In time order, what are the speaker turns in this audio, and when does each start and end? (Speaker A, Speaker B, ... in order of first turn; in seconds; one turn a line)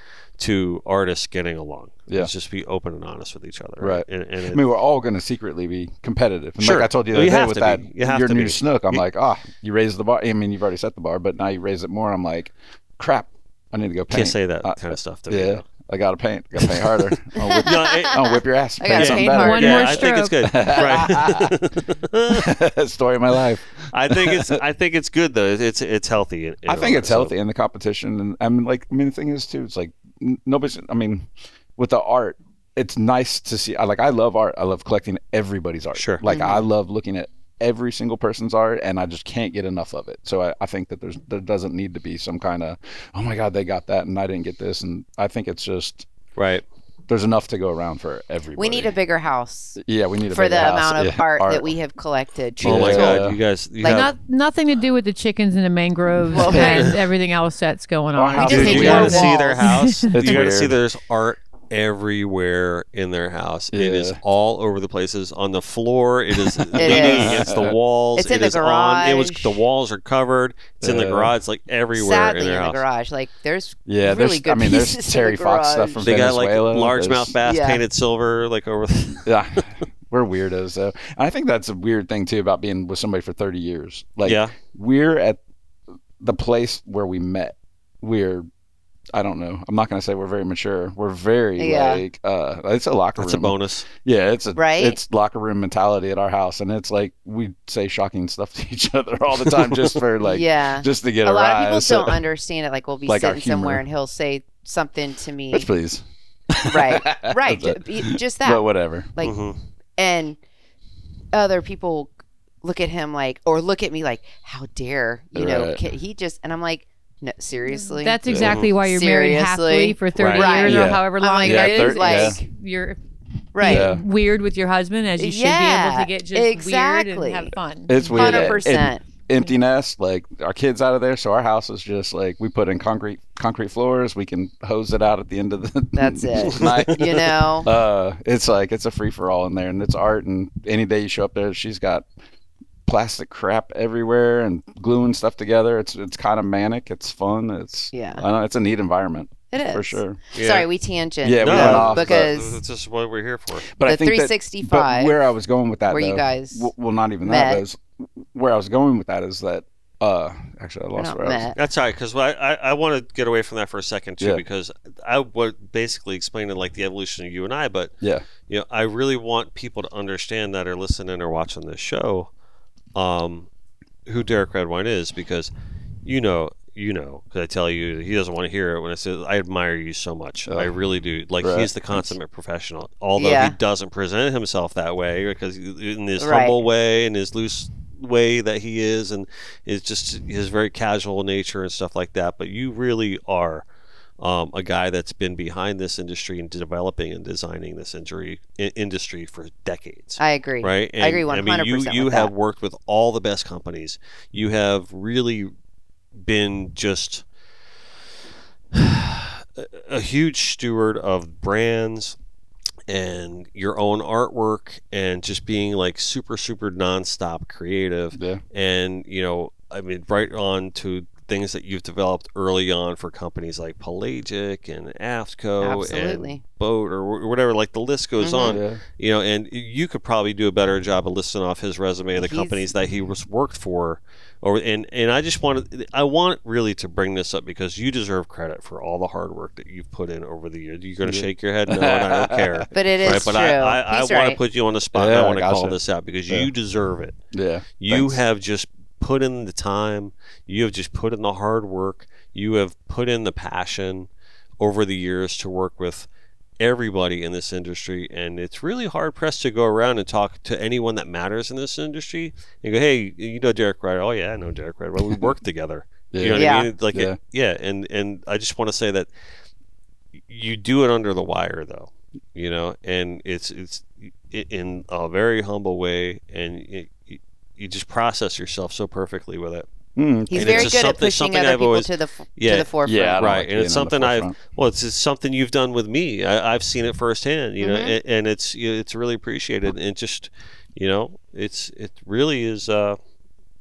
Speaker A: 0.4-4.6
Speaker B: 3.8-21.6
Speaker A: 6.6-9.0
Speaker A: 14.1-15.6
Speaker A: 16.6-18.4
Speaker C: 17.4-20.1
Speaker A: 18.9-22.5
Speaker D: 19.3-20.5
Speaker B: 22.3-24.6
Speaker A: 23.9-27.3
Speaker B: 26.7-46.1
Speaker A: 36.0-36.2
Speaker C: 36.3-36.6
Speaker A: 46.4-46.6
Speaker B: 47.1-48.9
Speaker C: 48.6-49.8
Speaker B: 49.8-51.7
Speaker C: 50.3-53.3
Speaker B: 52.6-53.4
Speaker A: 52.6-54.1
Speaker C: 53.8-54.1
Speaker D: 53.9-60.2
Speaker C: 56.3-57.0
Speaker A: 56.5-57.0
Speaker B: 58.1-59.2
Speaker C: 58.4-59.6
Speaker A: 58.4-72.8
Speaker B: 60.1-60.8
Speaker B: 63.7-64.2
Speaker B: 66.4-67.8
Speaker C: 66.8-67.5
Speaker C: 68.2-69.5
Speaker B: 70.8-71.3
Speaker C: 72.0-76.1
Speaker B: 73.9-77.3
Speaker A: 76.0-79.3
Speaker C: 77.4-77.8
Speaker B: 79.2-85.4
Speaker A: 84.2-84.6
Speaker B: 86.2-88.5
Speaker B: 89.1-102.2
Speaker C: 91.6-92.0
Speaker A: 93.2-93.9
Speaker C: 94.6-95.0
Speaker C: 100.2-105.7
Speaker B: 103.1-103.8
Speaker B: 105.5-109.1
Speaker C: 106.7-109.4
Speaker A: 109.2-109.6
Speaker C: 110.0-110.4
Speaker C: 111.3-122.4
Speaker B: 115.3-115.8
Speaker D: 117.7-123.0
Speaker B: 118.3-118.6
Speaker A: 118.3-118.7
Speaker A: 120.2-120.5
Speaker B: 120.6-122.4
Speaker C: 123.5-124.0
Speaker D: 123.6-128.6
Speaker B: 123.7-124.0
Speaker C: 125.2-127.5
Speaker B: 127.9-137.1
Speaker C: 128.1-129.1
Speaker C: 135.9-137.7
Speaker A: 136.6-137.3
Speaker B: 137.6-142.1
Speaker B: 142.9-150.2
Speaker C: 147.9-148.2
Speaker C: 149.5-152.6
Speaker A: 150.3-150.7
Speaker B: 151.2-152.3
Speaker A: 151.4-153.7
Speaker B: 153.8-161.5
Speaker C: 153.8-155.2
Speaker C: 155.9-156.7
Speaker C: 157.2-157.6
Speaker C: 161.0-161.6
Speaker A: 161.6-167.9
Speaker B: 168.0-168.3
Speaker A: 168.5-172.3
Speaker A: 172.9-173.5
Speaker A: 174.1-175.5
Speaker A: 176.1-193.7
Speaker B: 181.4-182.1
Speaker C: 183.2-183.6
Speaker C: 186.2-186.6
Speaker A: 194.2-205.5
Speaker C: 200.2-202.3
Speaker A: 206.2-207.2
Speaker A: 208.7-212.2
Speaker A: 212.9-247.2
Speaker B: 218.1-218.4
Speaker C: 225.6-226.4
Speaker C: 228.2-228.6
Speaker B: 228.5-228.8
Speaker C: 232.2-232.6
Speaker B: 241.0-243.2
Speaker C: 242.7-244.4
Speaker B: 244.9-245.8
Speaker B: 247.3-248.2
Speaker A: 247.8-256.1
Speaker A: 256.6-269.1
Speaker B: 266.1-267.2
Speaker C: 266.4-266.7
Speaker A: 270.3-279.7
Speaker B: 280.0-280.9
Speaker C: 280.3-283.3
Speaker A: 280.3-293.0
Speaker B: 282.8-284.4
Speaker C: 287.6-287.9